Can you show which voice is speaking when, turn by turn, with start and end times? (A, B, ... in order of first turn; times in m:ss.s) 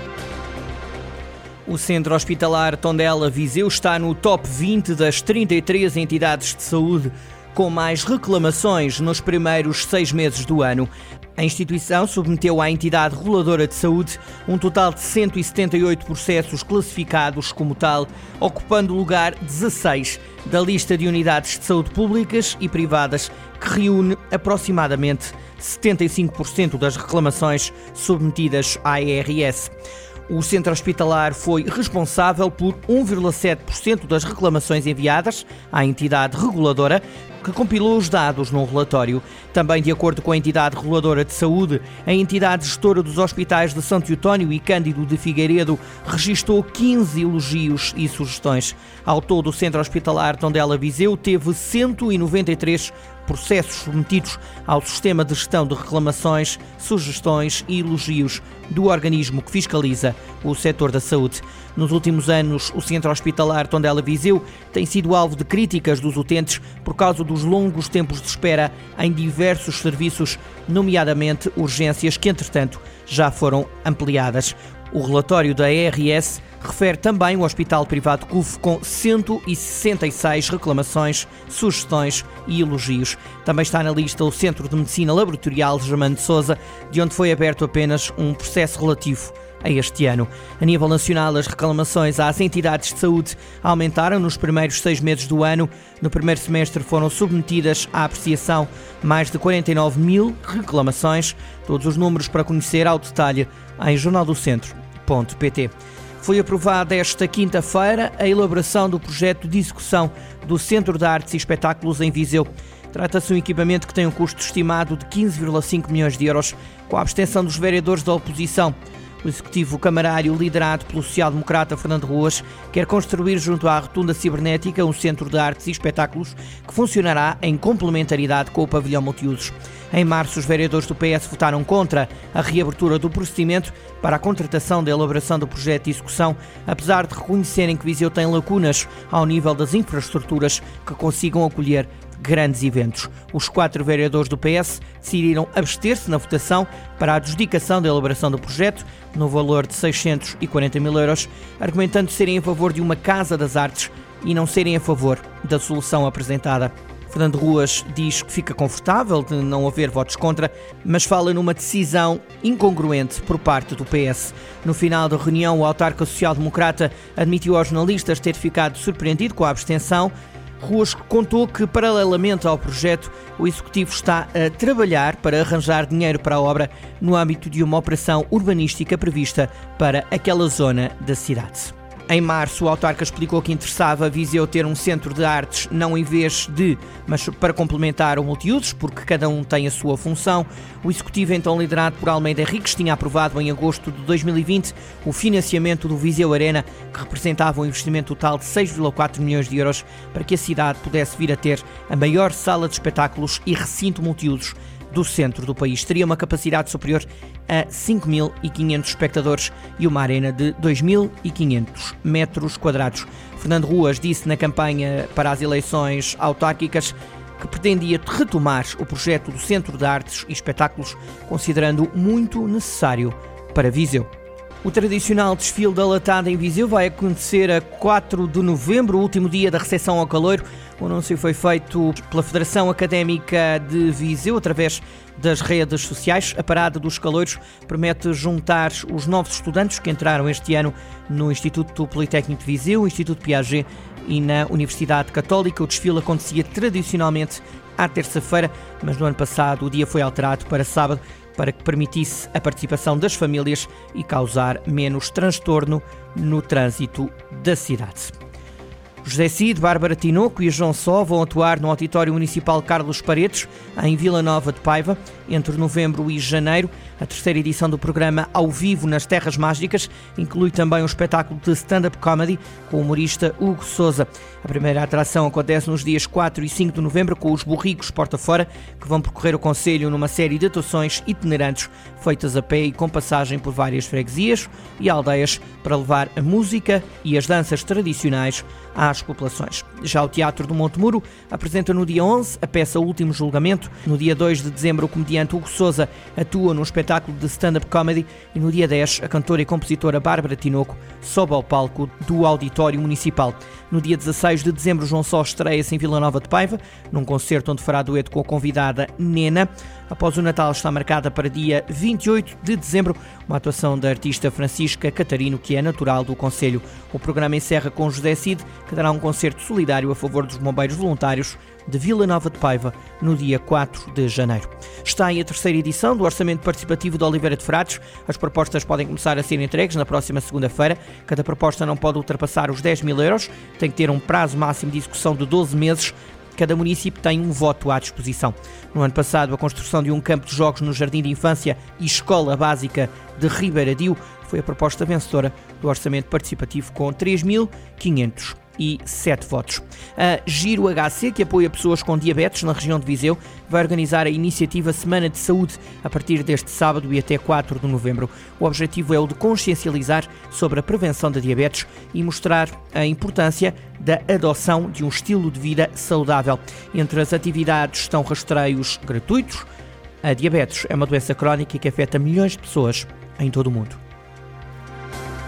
0:01.6-0:29.7 A
0:30.3-3:44.1 A
3:44.6-4:18.1 A
4:19.0-6:09.5 A
6:10.0-6:13.8 A